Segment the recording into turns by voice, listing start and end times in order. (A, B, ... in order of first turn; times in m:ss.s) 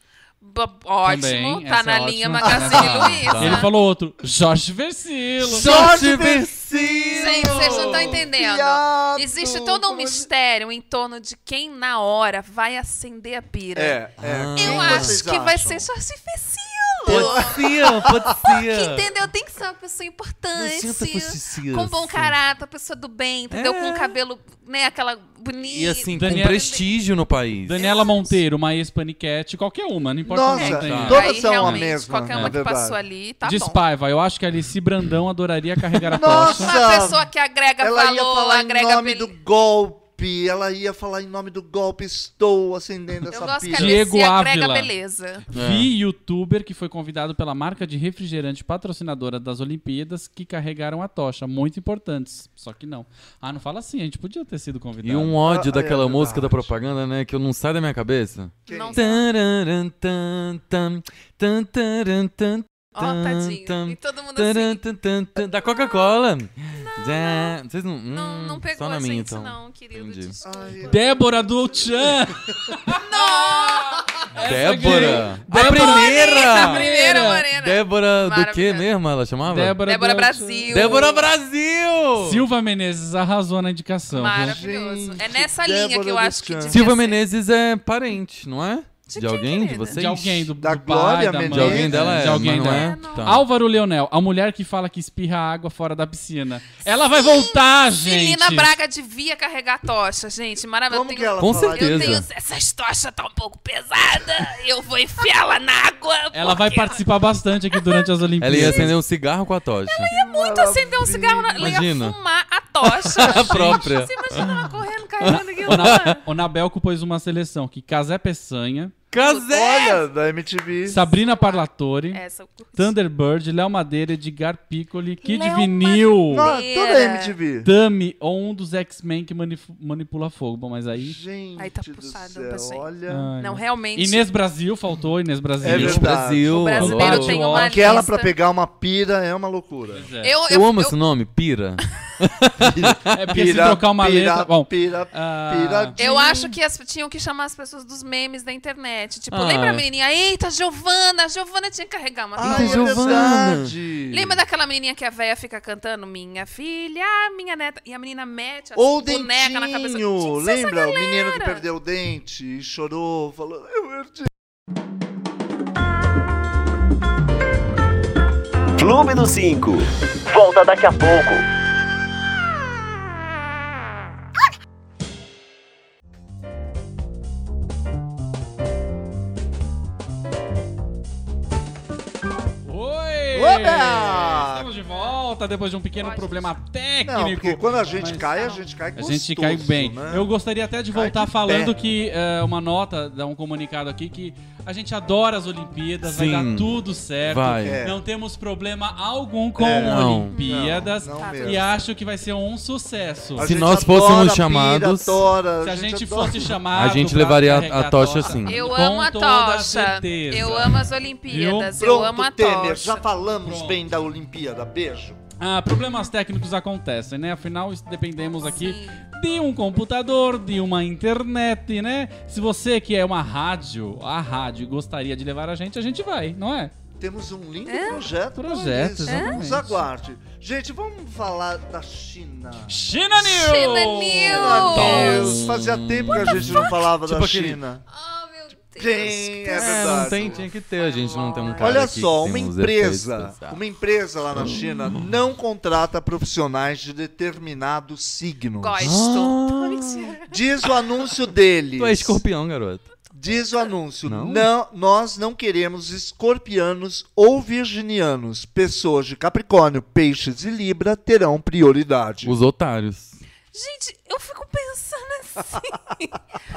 0:00.4-0:03.7 A
0:01.0-0:05.7 B
0:02.4-0:03.2 C
0:02.8-0:03.7 D
0:05.4-0:10.3 C
0:05.5-0:08.3 D
0:07.1-0:14.0 A
0:13.7-0:15.9 C
0:14.2-0:15.2 D
0:14.6-0:17.6 A
0:17.0-0:18.5 C
0:17.1-0:19.1 D
0:18.4-0:26.8 A
0:20.6-0:22.4 D
0:23.5-0:24.2 D
0:25.6-0:27.8 D
0:26.1-0:26.6 B
0:27.7-0:31.3 B
0:27.8-0:28.4 A
0:30.2-0:33.0 C
0:30.6-0:33.8 A
0:30.6-0:32.5 D
0:33.4-0:36.8 B
0:36.1-0:37.3 C
0:36.3-0:39.3 A
0:37.8-0:44.0 C
0:43.3-0:45.5 A
0:43.7-0:44.9 B
0:45.5-0:55.4 B
0:45.5-0:45.9 D
0:55.0-1:10.4 D
0:55.4-0:56.7 C
0:58.7-0:59.1 C
0:58.7-0:59.3 A
1:03.0-1:04.8 A
1:06.8-1:07.5 A
1:08.1-1:10.9 A
1:10.4-1:12.4 C
1:10.8-1:17.5 B
1:12.9-1:14.1 A
1:14.4-1:16.9 D
1:14.9-1:18.9 A
1:17.6-1:19.8 D
1:19.5-1:21.0 B
1:19.8-1:21.3 A
1:20.7-1:22.4 D
1:22.2-1:24.6 B
1:24.1-1:27.2 A
1:24.3-1:26.9 C
1:26.7-1:30.5 D
1:29.1-1:30.0 A
1:29.9-1:38.8 B
1:30.6-1:32.4 C
1:31.5-1:33.4 D
1:32.6-1:33.4 A
1:36.9-1:47.0 A
1:40.9-1:42.2 C
1:41.4-1:42.3 D
1:46.3-1:49.0 B
1:47.7-1:48.0 A
1:48.4-1:50.1 D
1:49.9-1:56.2 A
1:50.1-1:51.8 C
1:51.6-1:52.2 D
1:52.8-1:56.2 D
1:53.3-1:53.9 B
1:55.6-1:58.9 B
1:59.1-2:00.0 D
1:59.2-2:00.0 A
1:59.5-2:01.0 C
2:00.9-2:02.2 B
2:01.0-2:02.9 A
2:02.8-2:06.5 B
2:05.2-2:07.4 A
2:06.3-2:07.7 C
2:07.6-2:11.2 B
2:11.0-2:13.3 C
2:11.6-2:12.9 A
2:13.1-2:16.2 B
2:13.4-2:14.2 A
2:15.6-2:16.6 C
2:15.6-2:17.6 D
2:16.4-2:18.3 A
2:16.8-2:18.0 B
2:17.5-2:20.1 C
2:19.9-2:20.3 B
2:20.2-2:21.0 A
2:20.5-2:23.1 D
2:22.6-2:26.6 C
2:23.1-2:26.0 B
2:26.0-2:33.5 A
2:29.3-2:29.8 D
2:32.4-2:34.4 C
2:32.4-2:33.7 D
2:34.1-2:41.6 A
2:38.8-2:44.3 C
2:48.8-2:51.4 E
3:02.6-3:23.5 B
3:03.3-3:04.7 C
3:06.0-3:06.6 A
3:07.0-3:10.3 C
3:10.9-3:11.8 C
3:16.0-3:16.7 D
3:17.3-3:17.8 D
3:17.5-3:18.0 C
3:19.6-3:21.7 C
3:19.8-3:20.4 D
3:20.3-3:21.8 A
3:23.4-3:26.6 C
3:23.4-3:25.2 D
3:25.6-3:31.7 B
3:26.7-3:28.6 D
3:28.4-3:33.0 A
3:31.8-3:35.2 C
3:33.4-3:33.8 B
3:35.4-3:46.7 B
3:38.4-3:39.0 A
3:47.0-3:52.8 C
3:47.7-3:48.1 A
3:48.4-3:49.9 B
3:49.1-3:49.4 A
3:52.7-3:55.0 B
3:53.2-3:55.4 A
3:54.2-3:57.8 C
3:54.6-3:57.6 D
3:56.1-3:56.8 A
3:57.9-4:01.9 A
3:58.8-4:00.5 C
3:59.5-4:03.6 D
4:01.6-4:09.0 C
4:04.4-4:05.1 D
4:08.6-4:10.3 A
4:08.8-4:10.2 D
4:10.3-4:12.2 C
4:11.8-4:12.9 D
4:13.1-4:22.4 C
4:14.1-4:14.5 D
4:22.2-4:23.2 D
4:23.5-4:26.2 A